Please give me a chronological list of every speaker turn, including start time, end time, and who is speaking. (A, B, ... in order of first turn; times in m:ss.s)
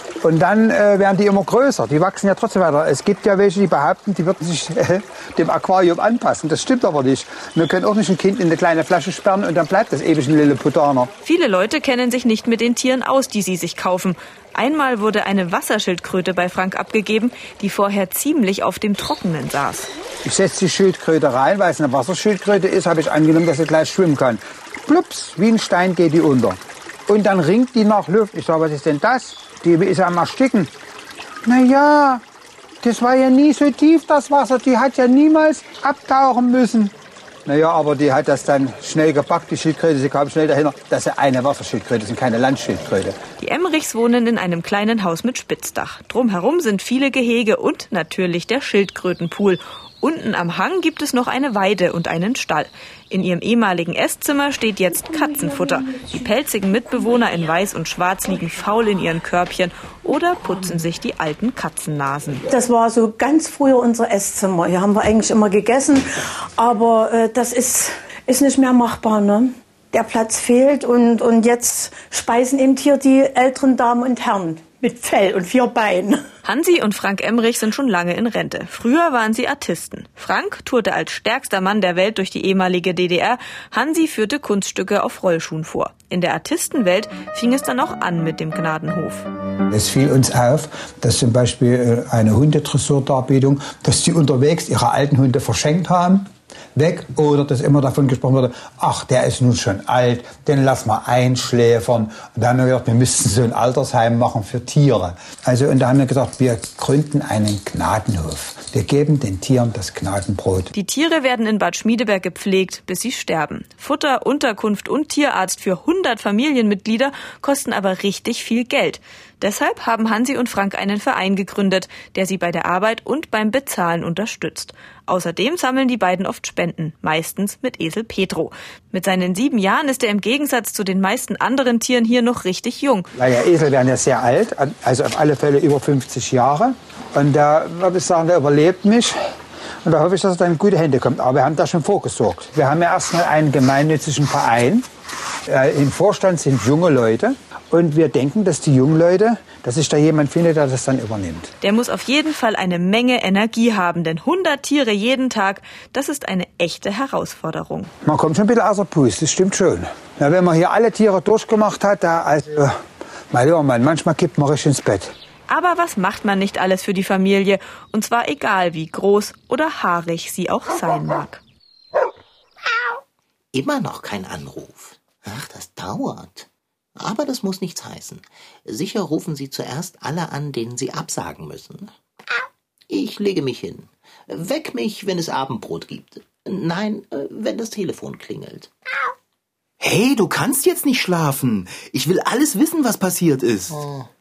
0:00.2-0:11.1 A
0:11.2-0:19.9 B
0:20.2-0:30.7 A
0:31.4-0:32.2 A
0:32.8-0:36.9 A
0:37.5-0:43.2 A
0:43.4-1:02.4 B
1:02.5-1:16.3 C
1:16.4-1:29.3 B
1:29.7-1:50.7 A
1:50.7-2:13.1 B
2:13.1-2:19.2 A
2:19.8-2:24.9 A
2:25.5-2:31.5 A
2:31.6-2:37.9 B
2:38.0-2:42.8 A
2:43.3-2:45.1 A
2:45.5-2:51.4 B
2:53.5-3:01.9 D
3:02.9-3:08.7 D
3:09.8-3:13.8 E
3:13.7-3:14.1 D